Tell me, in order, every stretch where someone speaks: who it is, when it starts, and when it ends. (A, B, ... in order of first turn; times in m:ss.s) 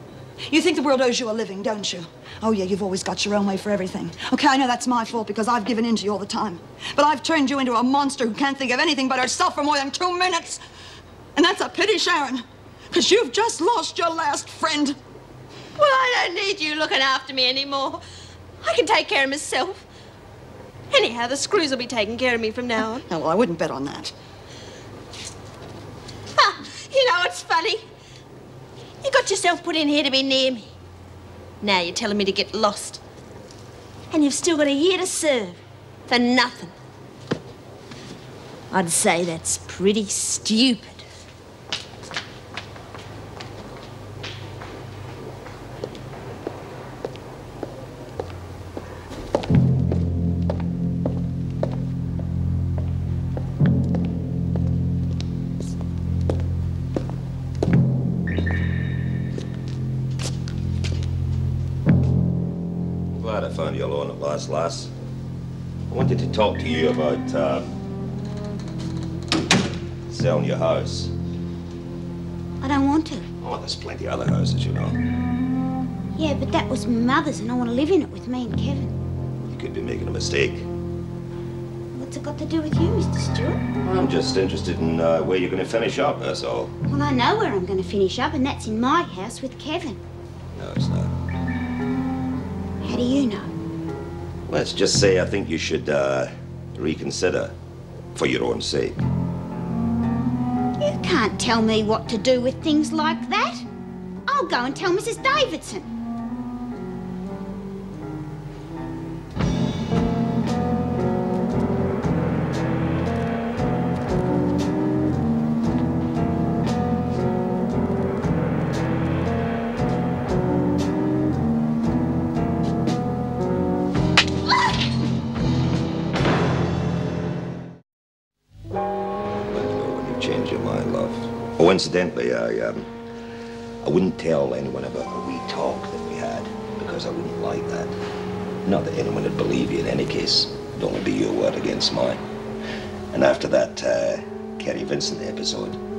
0:00.5-0:10.6 A
0:11.4-0:15.0 A
0:15.8-0:18.0 B
0:18.6-0:19.8 B
0:20.9-0:23.0 B
0:23.1-0:24.1 A
0:26.4-0:27.8 B
0:29.0-0:30.7 B
0:31.6-0:33.0 B
0:34.1-0:36.7 B
0:38.7-0:41.0 B
1:03.1-1:04.9 C
1:05.9-1:07.7 C
1:10.1-1:11.1 C
1:12.6-1:13.2 D
1:13.4-1:15.0 C
1:16.2-1:19.0 D
1:19.4-1:20.6 C
1:21.9-1:23.6 D
1:23.8-1:26.7 C
1:26.9-1:30.0 D
1:30.5-1:31.1 C
1:32.8-1:33.5 D
1:34.5-1:37.5 C
1:38.1-1:39.0 C
1:40.8-1:43.6 D
1:44.3-1:45.9 D
2:09.5-2:12.9 C
2:13.8-2:17.9 C
2:18.6-2:22.2 C
2:23.1-2:25.8 C